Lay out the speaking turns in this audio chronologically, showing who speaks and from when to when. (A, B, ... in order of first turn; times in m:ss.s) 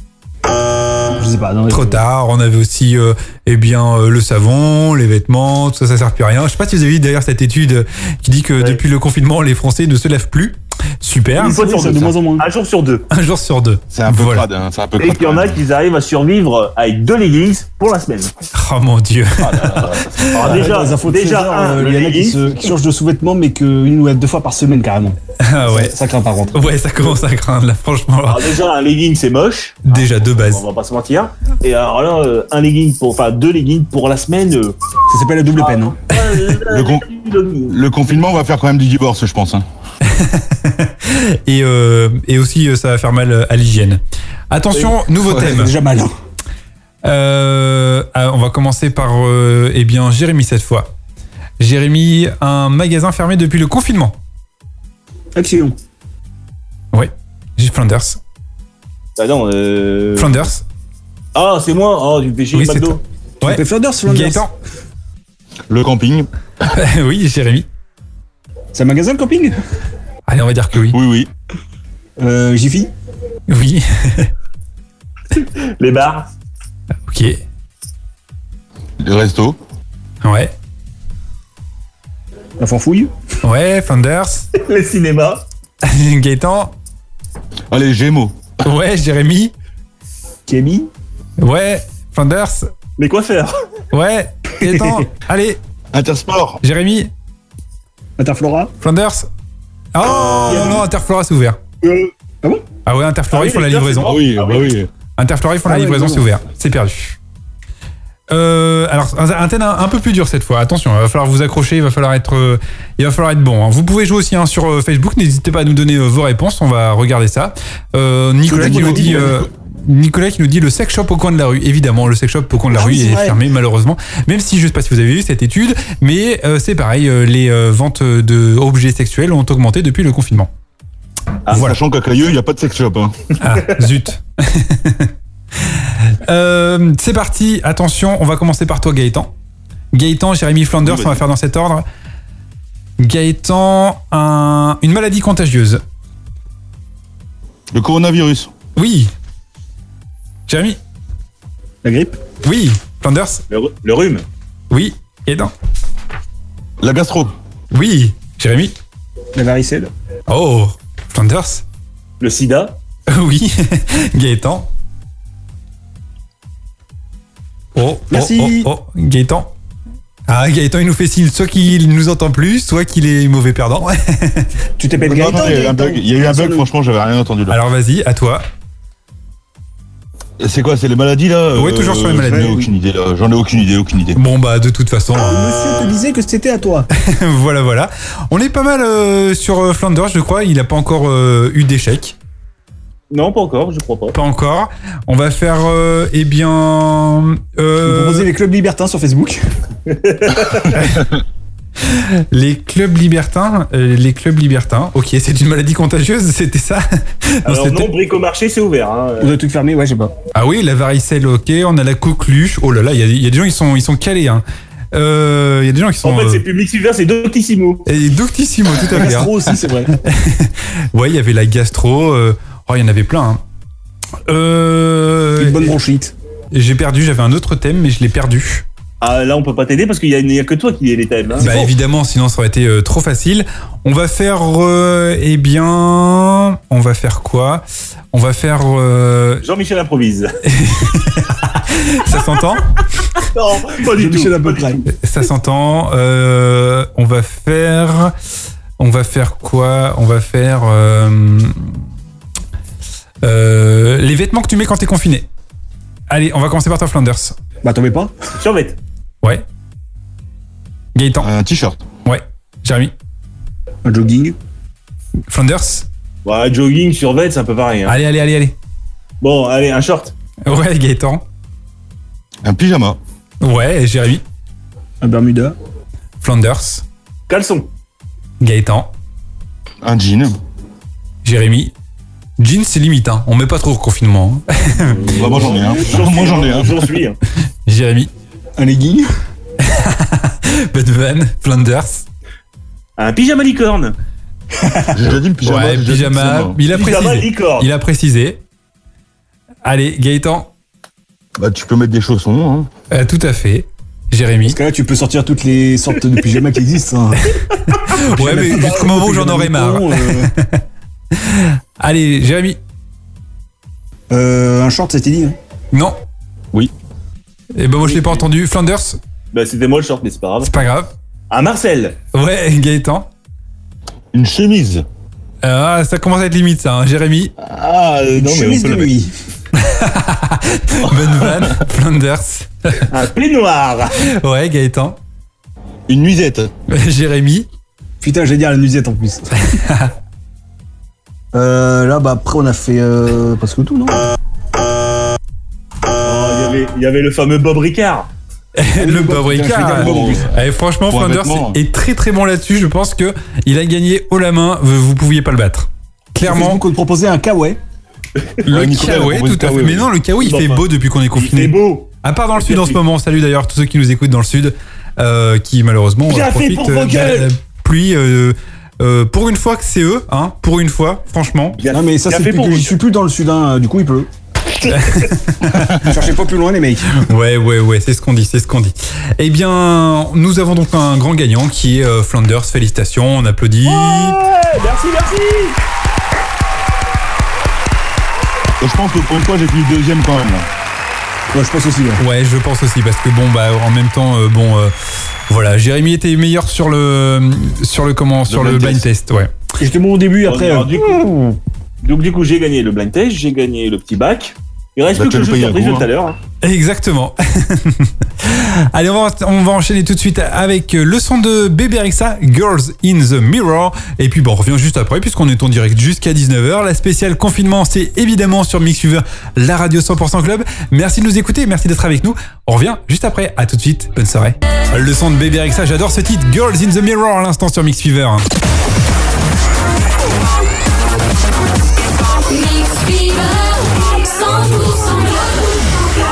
0:01.2-0:02.0 A
0:01.7-0:11.6 B
0:11.4-0:13.1 C
0:11.4-0:12.4 A
0:13.1-0:14.4 B
0:13.9-0:15.6 D
0:15.0-0:18.3 C
0:18.5-0:20.2 B
0:19.4-0:20.5 D
0:20.3-0:22.4 C
0:20.4-0:26.6 A
0:25.4-0:25.9 B
0:26.5-0:28.4 B
0:28.3-0:34.8 C
0:29.9-0:30.6 B
0:35.1-0:36.0 A
0:35.6-0:37.7 C
0:36.6-0:37.0 D
0:37.7-0:39.6 D
0:40.0-0:45.7 B
0:45.2-0:46.1 A
0:47.0-0:50.9 B
0:51.6-0:54.2 B
0:55.4-0:55.7 A
0:56.9-0:58.2 B
0:59.2-1:00.5 C
1:00.2-1:00.6 B
1:01.3-1:03.0 C
1:02.5-1:04.5 B
1:03.4-1:04.4 A
1:05.7-1:06.3 D
1:06.6-1:07.7 B
1:08.7-1:09.5 A
1:10.3-1:11.0 B
1:10.9-1:11.3 D
1:12.2-1:12.9 A
1:13.5-1:14.3 B
1:15.3-1:16.3 C
1:17.1-1:17.4 B
1:19.0-1:19.6 D
1:20.2-1:20.5 B
1:22.6-1:23.1 A
1:23.4-1:24.5 B
1:24.5-1:25.4 C
1:25.8-1:26.7 B
1:27.7-1:28.4 D
1:28.6-1:29.5 B
1:30.5-1:30.9 A
1:31.4-1:32.7 B
1:33.0-1:33.5 C
1:33.9-1:35.6 B
1:35.9-1:36.6 D
1:36.6-1:37.1 B
1:38.2-1:38.7 A
1:38.8-1:39.3 B
1:39.9-1:41.6 B
1:40.5-1:40.8 C
1:41.8-1:42.1 C
1:42.9-1:44.2 B
1:43.3-1:44.7 C
1:44.0-1:44.9 D
1:45.2-1:47.2 B
1:45.6-1:46.3 A
1:48.3-2:10.5 B
1:58.4-1:59.4 A
2:02.7-2:03.4 A
2:11.4-2:11.7 C
2:11.5-2:13.2 D
2:13.4-2:19.3 B
2:19.9-2:21.8 B
2:20.8-2:21.2 D
2:23.0-2:25.8 B
2:27.7-2:28.5 D
2:28.8-2:29.1 B
2:30.5-2:30.8 B
2:31.8-2:32.2 A
2:32.4-2:33.4 B
2:33.5-2:34.2 C
2:34.7-2:35.5 B
2:36.8-2:37.3 D
2:37.7-2:38.8 B
2:39.3-2:39.9 A
2:40.3-2:41.6 B
2:42.2-2:42.8 C
2:43.1-2:44.7 B
2:47.7-2:49.5 B
2:48.1-2:48.7 A
2:50.3-2:54.5 B
2:54.8-2:56.7 A
2:55.0-2:57.6 D
2:57.5-2:58.4 B
3:00.4-3:04.2 D
3:01.5-3:02.6 B
3:04.1-3:05.5 B
3:05.3-3:06.9 A
3:07.0-3:12.2 B
3:13.1-3:14.2 C
3:14.1-3:18.3 B
3:17.8-3:19.4 A
3:19.9-3:20.7 C
3:20.7-3:21.0 B
3:21.8-3:27.9 B
3:27.4-3:29.3 C
3:29.2-3:30.1 A
3:30.3-3:36.4 B
3:36.0-3:37.9 C
3:37.9-3:39.3 B
3:38.9-3:39.9 A
3:39.9-3:43.4 B
3:44.3-3:45.7 B
3:45.4-3:46.1 A
3:46.5-3:48.6 B
3:49.0-3:51.6 C
3:51.4-3:59.4 B
3:51.4-3:51.7 A
3:59.4-4:00.3 C
4:00.5-4:02.8 B
4:03.2-4:04.8 C
4:03.9-4:04.8 A
4:04.9-4:08.1 B
4:08.8-4:11.6 B
4:13.2-4:15.3 B
4:16.1-4:17.4 B
4:17.6-4:18.1 A
4:18.4-4:18.8 C
4:20.9-4:21.3 B
4:21.2-4:21.8 D
4:22.0-4:22.9 B
4:23.8-4:24.3 A
4:25.3-4:25.9 B
4:26.2-4:28.0 C
4:27.9-4:28.5 B
4:29.2-4:30.1 C
4:30.4-4:31.2 B
4:32.4-4:33.0 D
4:33.4-4:34.2 B
4:35.0-4:35.5 A
4:36.2-4:36.8 B
4:37.3-4:37.7 C
4:38.4-4:38.9 B
4:39.8-4:40.4 D
4:41.2-4:41.7 B
4:42.4-4:45.1 B
4:45.1-4:46.9 D
4:45.1-4:47.2 C
4:47.6-4:48.1 B
4:48.6-4:49.1 A
4:49.6-4:52.0 B
4:53.0-4:54.0 C
4:54.6-4:54.9 A
4:54.9-4:56.6 D
4:55.4-4:58.4 B
4:56.7-4:57.7 C
4:59.6-5:00.5 B
5:01.4-5:02.7 D
5:02.9-5:04.6 B
5:04.4-5:07.3 A
5:07.3-5:12.6 B
5:07.9-5:10.3 A
5:14.1-5:15.3 A
5:15.7-5:16.0 B
5:17.5-5:19.0 B
5:17.8-5:18.3 C
5:19.3-5:20.5 C
5:20.4-5:20.9 B
5:21.3-5:22.0 C
5:22.1-5:23.1 B
5:24.1-5:24.8 D
5:25.4-5:27.3 B
5:27.4-5:28.9 D
5:28.1-5:29.1 A
5:29.5-5:32.9 B
5:30.9-5:31.6 D
5:32.9-5:34.0 C
5:34.0-5:35.0 B
5:35.9-5:36.5 D
5:36.7-5:37.5 B
5:38.0-5:39.3 A
5:39.5-5:39.9 B
5:41.3-5:44.0 A
5:46.0-5:48.1 C
5:48.5-5:56.6 B
5:48.8-5:50.3 A
5:49.4-5:50.3 D
5:50.9-5:51.6 D
5:56.2-5:57.6 A
5:58.4-5:59.9 D
5:58.4-6:11.6 B
6:00.2-6:02.8 C
6:06.1-6:07.3 C
6:11.6-6:12.8 C
6:11.7-6:14.1 A
6:14.7-6:15.9 B
6:15.8-6:17.0 A
6:17.0-6:24.2 B
6:23.6-6:25.6 C
6:28.6-6:30.5 D
6:31.3-6:32.0 A
6:32.0-6:34.7 B
6:35.3-6:39.3 B
6:38.3-6:38.9 D
6:39.6-6:41.3 A
6:40.2-6:41.1 C
6:41.8-6:46.2 C
6:44.9-6:45.9 D
6:46.4-7:08.2 B
7:11.8-7:15.9 E